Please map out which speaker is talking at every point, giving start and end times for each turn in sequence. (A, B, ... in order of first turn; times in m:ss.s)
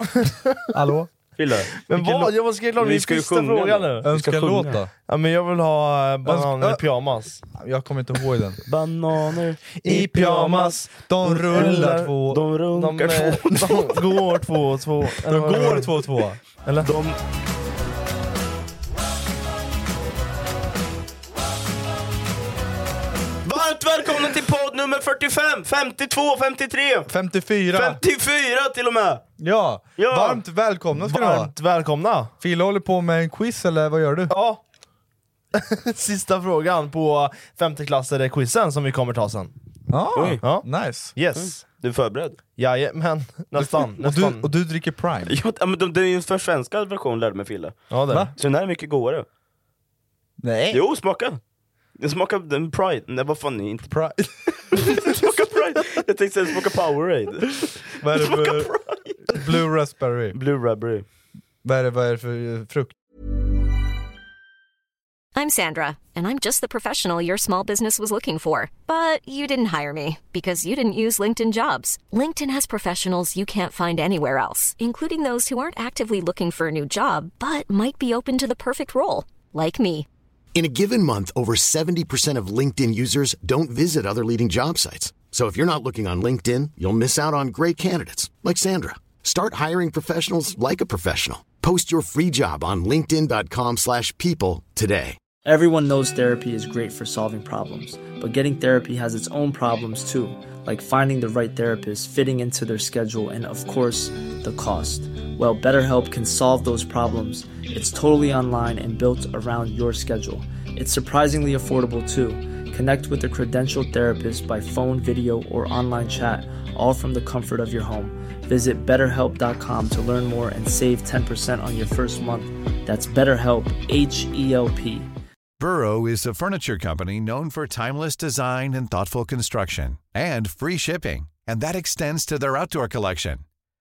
0:00.2-0:00.6 A
0:00.7-0:01.1 B
0:01.4-0:04.8 C
0:01.9-0:04.0 A
0:04.0-0:04.9 B
0:05.1-0:07.4 A
0:06.2-0:06.8 B
0:07.5-0:08.6 B
0:08.7-0:09.6 C
0:09.8-0:12.4 B
0:09.8-0:12.1 A
0:11.5-0:14.1 C
0:12.7-0:15.9 A
0:15.3-0:16.4 B
0:16.8-0:17.2 C
0:23.4-0:27.1 C
0:27.1-0:28.0 B
0:27.7-0:29.2 C
0:29.4-0:31.5 B
0:30.0-0:30.4 C
0:31.0-0:32.3 A
0:32.4-0:34.3 B
0:34.3-0:34.6 A
0:35.6-0:39.5 A
0:39.9-0:41.1 B
0:40.1-0:40.4 C
0:40.4-0:41.6 A
0:41.3-0:42.4 C
0:42.6-0:44.5 A
0:43.6-0:45.4 B
0:45.3-0:49.2 C
0:47.9-0:48.3 A
0:50.4-0:50.8 B
0:50.7-0:51.4 C
0:52.0-0:53.9 C
0:53.9-0:55.0 B
0:54.5-0:59.4 C
0:58.0-0:58.7 B
0:59.3-1:00.4 B
1:00.3-1:01.0 C
1:01.6-1:02.9 B
1:05.4-1:20.1 D
1:20.5-1:35.2 E
1:35.4-2:05.1 F
2:05.6-2:13.4 G